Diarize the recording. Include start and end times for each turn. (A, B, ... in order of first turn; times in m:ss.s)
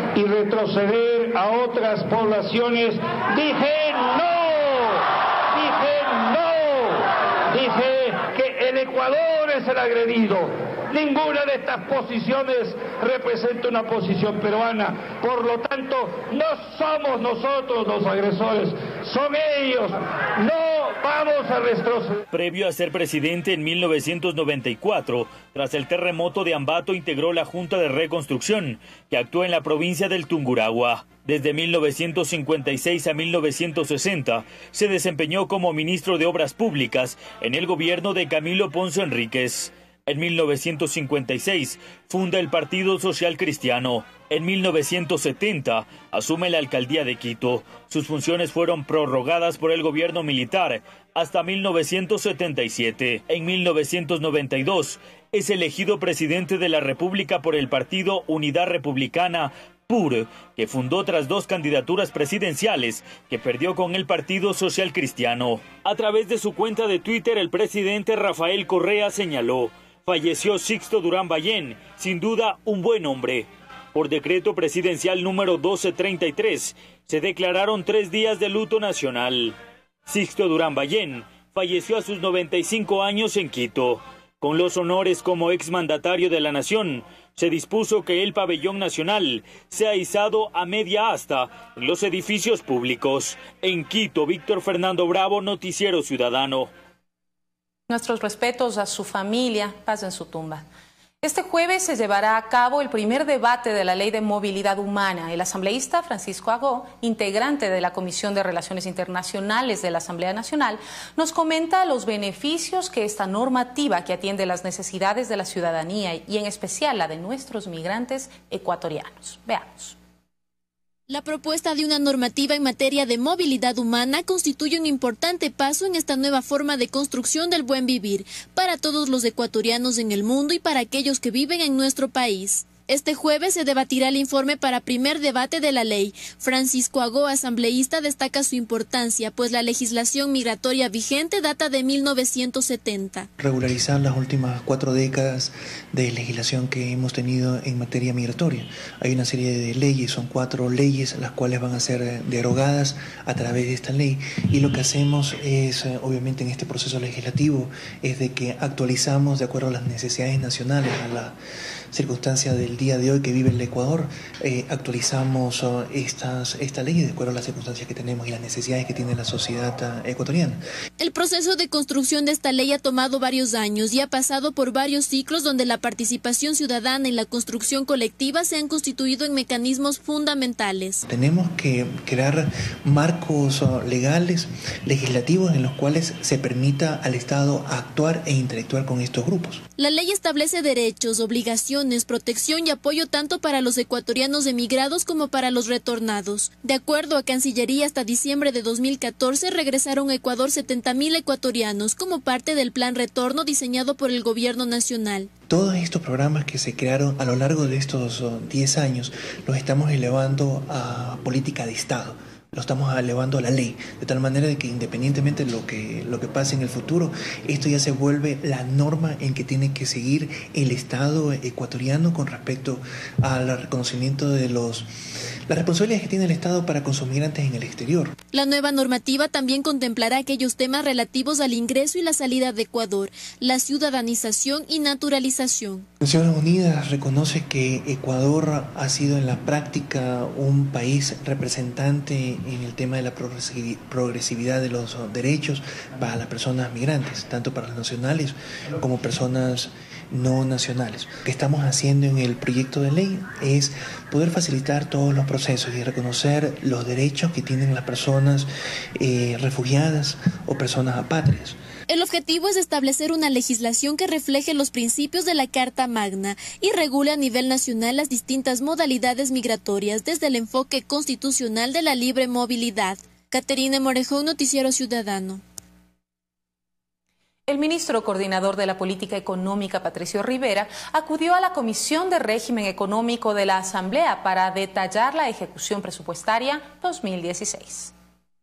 0:00.1-0:22.2 A
0:22.3-1:19.6 B
1:20.1-1:36.7 B
1:37.9-1:40.6 C
1:41.2-2:00.0 C
2:01.1-2:23.3 D
2:23.4-2:41.4 E
2:41.9-2:50.6 E
2:51.0-3:01.0 D
3:01.1-3:09.6 E
3:09.8-3:25.3 D
3:25.5-3:44.9 E
3:45.5-3:48.2 E
3:48.3-3:55.9 D
3:56.0-4:21.6 E
4:21.9-4:35.4 D
4:37.5-4:47.9 C